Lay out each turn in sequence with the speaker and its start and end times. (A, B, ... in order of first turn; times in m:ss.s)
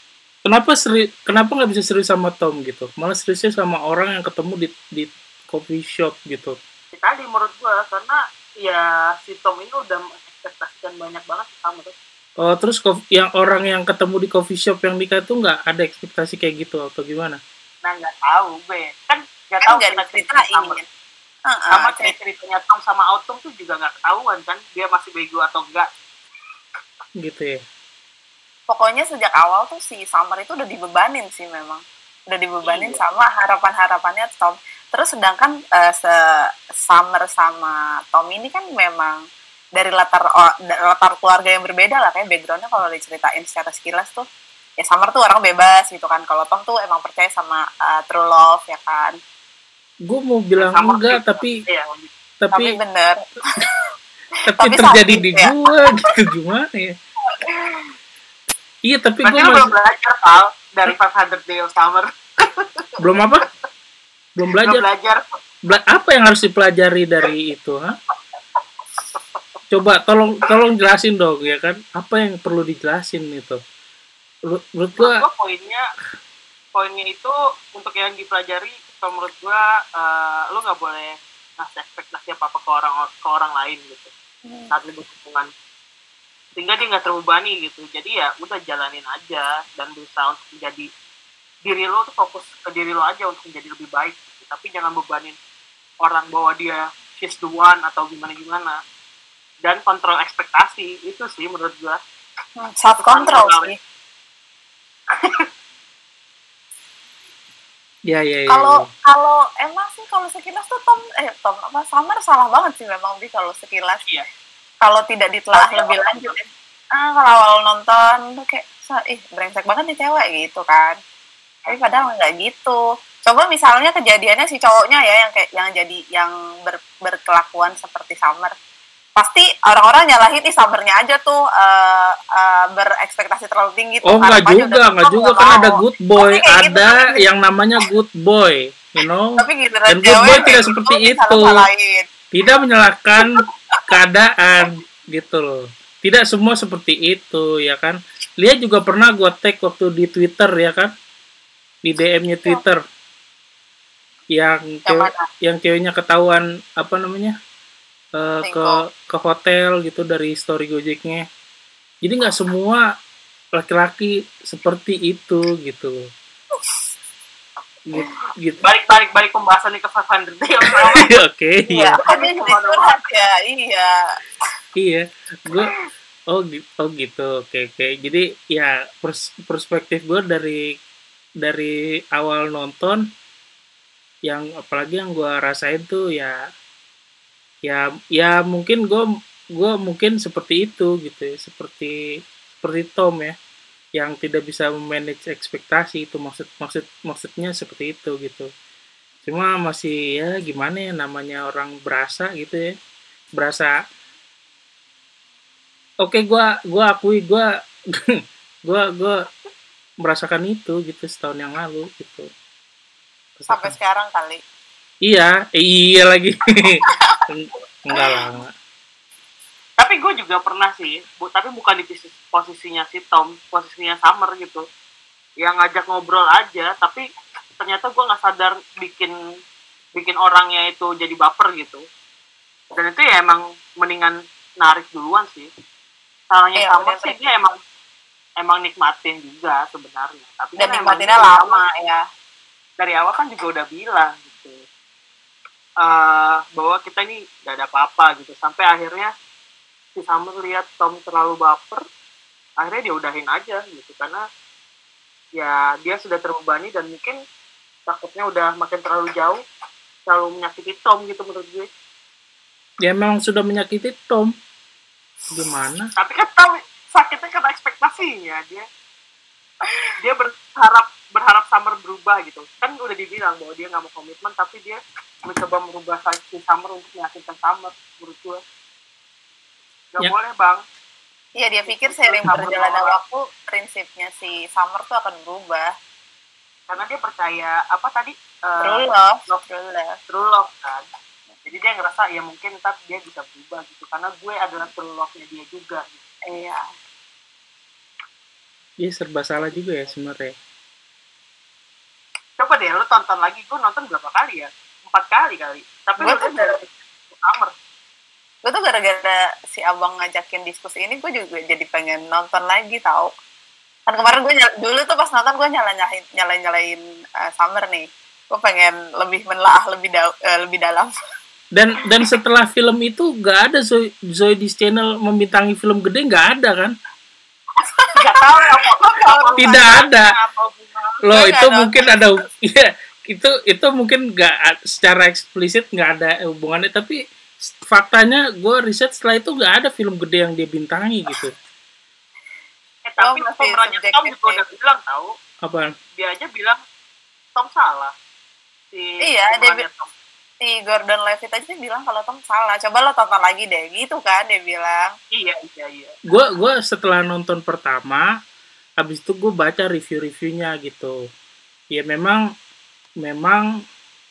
0:00.4-0:06.6 A
0:06.9-0:11.9 B
0:12.4-0:17.4 A
0:17.8-0:20.8 B
0:19.6-0:20.8 C
0:21.5-0:22.1 C
0:21.7-0:25.9 B
0:27.2-0:27.6 A
0:28.7-0:39.2 C
0:32.6-0:33.0 B
0:39.8-0:44.2 C
0:44.8-0:49.2 C
0:50.1-0:51.6 A
0:50.6-0:52.1 B
0:52.4-0:52.8 A
0:52.5-0:53.6 C
0:54.5-0:56.9 A
0:54.6-0:56.1 C
0:58.8-0:59.7 A
0:59.2-1:02.9 B
1:03.0-1:03.4 A
1:04.4-1:04.8 A
1:04.6-1:05.2 B
1:05.7-1:08.0 A
1:09.1-1:09.4 B
1:09.7-1:13.6 A
1:14.5-1:15.2 A
1:15.0-1:15.8 B
1:16.7-1:24.1 B
1:24.5-1:24.7 C
1:24.7-1:25.5 B
1:26.6-1:30.9 B
1:31.6-1:35.4 B
1:36.0-1:38.8 B
1:39.6-1:42.0 B
1:42.6-1:43.8 C
1:43.0-1:43.7 B
1:45.1-1:45.4 B
1:48.1-1:48.8 A
1:48.5-1:54.0 C
1:54.8-2:01.0 C
1:55.5-1:56.4 B
2:01.6-2:02.1 B
2:01.7-2:08.5 C
2:09.2-2:17.2 C
2:14.1-2:21.6 A
2:19.4-2:22.1 C
2:22.3-2:30.9 A
2:31.8-2:32.8 A
2:34.3-2:37.3 A
2:34.9-2:35.2 C
2:38.2-2:41.2 A
2:38.4-2:38.8 C
2:42.0-2:42.8 A
2:43.6-2:46.0 A
2:47.9-2:48.6 A
2:48.6-2:51.2 B
2:50.9-2:52.0 A
2:51.7-2:53.9 C
2:52.0-2:53.0 B
2:54.8-2:55.7 A
2:56.3-3:00.6 A
3:01.4-3:03.0 A
3:04.3-3:06.3 A
3:07.6-3:09.0 A
3:09.6-3:11.9 A
3:12.6-3:13.3 A
3:14.0-3:18.5 A
3:19.3-3:22.7 A
3:23.4-3:23.7 A
3:26.0-3:29.2 A
3:30.0-3:32.3 A
3:33.4-3:33.8 A
3:33.5-3:34.4 C
3:35.0-3:38.5 A
3:36.8-3:37.2 C
3:39.8-3:44.6 B
3:45.4-3:47.0 B
3:47.6-3:49.1 B
3:49.9-3:51.8 B
3:52.7-3:55.5 B
3:56.3-3:57.6 B
3:56.6-3:57.2 C
3:58.4-4:01.6 B
4:00.6-4:02.0 C
4:02.8-4:04.6 B
4:05.8-4:09.1 B
4:10.0-4:11.8 B
4:12.6-4:14.2 B
4:15.4-4:17.2 B
4:17.9-4:19.4 B
4:20.1-4:21.6 B
4:22.8-4:24.3 A
4:25.3-4:25.9 A
4:26.0-4:28.6 B
4:30.0-4:38.4 B
4:39.9-4:40.6 B
4:41.4-4:45.7 C
4:41.6-4:43.0 B
4:46.7-4:49.4 B
4:48.6-4:50.0 C
4:50.1-4:50.8 B
4:51.4-4:56.0 B
4:56.3-4:56.6 C
4:58.8-5:00.3 A
5:02.4-5:07.5 B
5:06.0-5:06.6 C
5:08.4-5:13.1 C
5:13.9-5:20.9 C
5:21.5-5:26.7 A
5:27.6-5:29.8 C
5:27.9-5:31.0 B
5:29.4-5:30.1 A
5:31.0-5:41.3 A
5:31.1-5:32.1 C
5:42.9-5:45.1 B
5:43.0-5:44.4 C
5:45.4-5:45.7 A
5:46.0-5:46.6 B
5:47.4-5:47.9 B
5:48.7-5:49.9 B
5:49.0-5:49.6 C
5:50.4-5:54.9 C
5:55.1-5:56.0 B
5:56.1-5:58.1 A
5:58.8-6:01.0 A
6:01.7-6:02.2 A
6:03.0-6:03.4 A